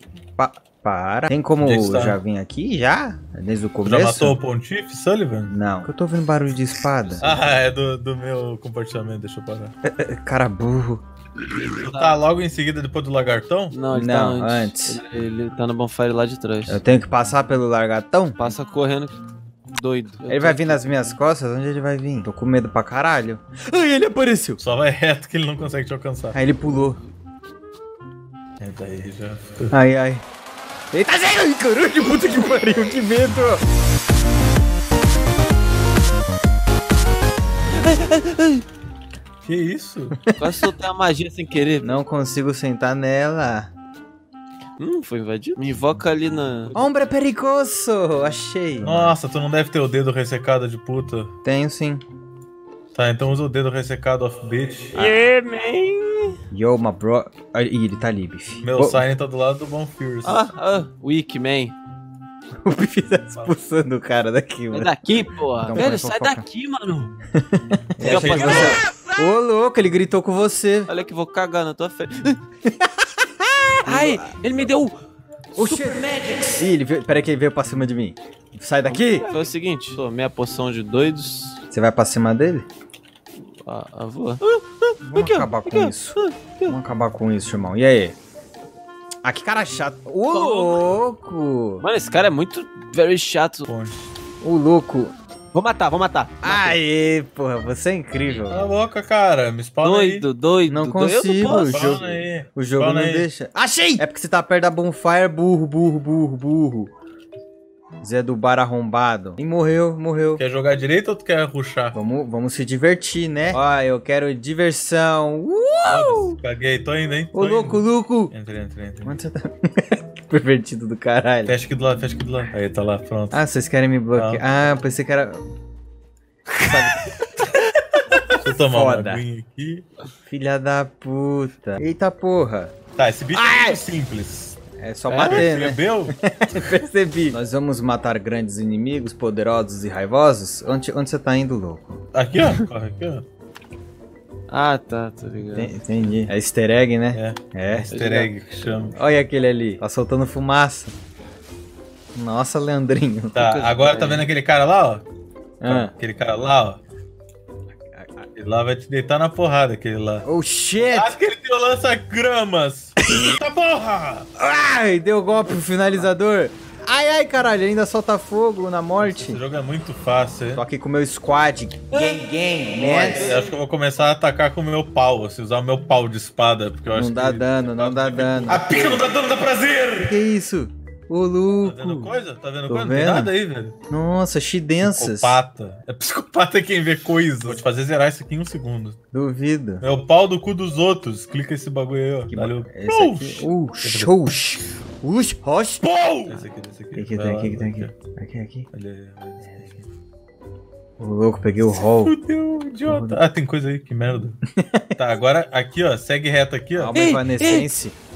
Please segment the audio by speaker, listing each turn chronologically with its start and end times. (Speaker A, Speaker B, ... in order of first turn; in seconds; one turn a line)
Speaker A: 0.4-4.3
Speaker B: 1.6-2.2
Speaker B: 3.8-5.5
Speaker A: 5.5-7.3
Speaker B: 7.2-9.7
Speaker A: 9.8-11.0
Speaker C: 11.7-12.2
Speaker B: 11.8-13.7
Speaker C: 13.7-16.8
Speaker A: 13.9-15.0
Speaker A: 16.7-18.4
Speaker C: 18.4-19.2
Speaker C: 19.7-20.8
Speaker A: 20.3-24.6
Speaker B: 24.6-26.4
Speaker A: 26.3-27.0
Speaker B: 28.6-29.7
Speaker A: 29.7-30.2
Speaker A: 30.9-33.6
Speaker C: 37.8-38.6
Speaker B: 39.4-40.1
Speaker A: 40.3-40.7
Speaker C: 40.4-42.0
Speaker A: 41.8-43.7
Speaker C: 44.8-46.8
Speaker A: 46.7-49.1
Speaker B: 48.8-51.3
Speaker A: 51.4-52.0
Speaker B: 52.9-54.9
Speaker C: 54.9-56.4
Speaker A: 56.5-59.0
Speaker B: 58.6-60.4
Speaker C: 60.2-61.7
Speaker A: 62.6-66.4
Speaker C: 64.7-67.1
Speaker A: 67.3-70.9
Speaker B: 68.0-68.8
Speaker C: 68.0-68.8
Speaker C: 70.9-72.4
Speaker A: 73.0-74.4
Speaker C: 73.8-75.0
Speaker C: 75.5-76.7
Speaker A: 75.5-79.3
Speaker C: 78.8-81.6
Speaker A: 81.7-82.7
Speaker C: 83.6-86.8
Speaker A: 85.0-88.2
Speaker A: 89.2-91.8
Speaker C: 90.3-90.8
Speaker C: 91.8-93.7
Speaker B: 93.7-94.1
Speaker A: 94.4-95.1
Speaker C: 95.5-96.8
Speaker A: 96.4-98.7
Speaker B: 98.5-100.2
Speaker C: 99.8-102.0
Speaker A: 100.7-106.9
Speaker B: 101.7-103.3
Speaker C: 103.7-104.0
Speaker A: 108.0-110.4
Speaker B: 110.4-112.0
Speaker A: 111.9-116.3
Speaker B: 115.9-119.2
Speaker A: 117.3-118.3
Speaker A: 119.0-121.5
Speaker B: 121.5-123.4
Speaker A: 123.3-125.4
Speaker B: 124.2-124.4
Speaker A: 126.6-127.3
Speaker A: 128.1-129.2
Speaker B: 128.4-129.8
Speaker A: 130.3-132.7
Speaker B: 133.0-134.6
Speaker A: 133.3-133.8
Speaker A: 134.8-142.0
Speaker C: 135.1-135.5
Speaker B: 135.2-136.1
Speaker B: 142.1-143.2
Speaker C: 144.5-145.8
Speaker A: 145.6-147.9
Speaker B: 147.1-149.0
Speaker C: 147.9-148.7
Speaker A: 148.9-150.9
Speaker A: 152.1-153.4
Speaker C: 153.3-154.3
Speaker B: 153.3-155.0
Speaker A: 155.6-155.9
Speaker B: 155.6-156.8
Speaker A: 157.9-158.3
Speaker B: 158.3-160.2
Speaker A: 160.2-161.2
Speaker B: 160.8-164.3
Speaker A: 163.0-163.4
Speaker A: 164.4-169.4
Speaker B: 169.0-170.6
Speaker A: 170.5-173.3
Speaker B: 171.9-172.2
Speaker C: 172.8-173.6
Speaker B: 173.2-180.2
Speaker A: 176.9-179.1
Speaker A: 180.0-182.1
Speaker B: 181.6-183.7
Speaker A: 182.7-183.3
Speaker A: 183.9-185.4
Speaker B: 184.8-189.0
Speaker A: 189.1-189.8
Speaker B: 189.8-194.2
Speaker A: 192.3-196.4
Speaker B: 195.8-197.9
Speaker A: 196.9-198.7
Speaker B: 198.7-199.8
Speaker A: 201.0-202.1
Speaker B: 201.7-204.4
Speaker A: 202.8-203.2
Speaker A: 204.6-204.9
Speaker B: 204.9-207.0
Speaker A: 206.8-207.9
Speaker C: 206.9-207.7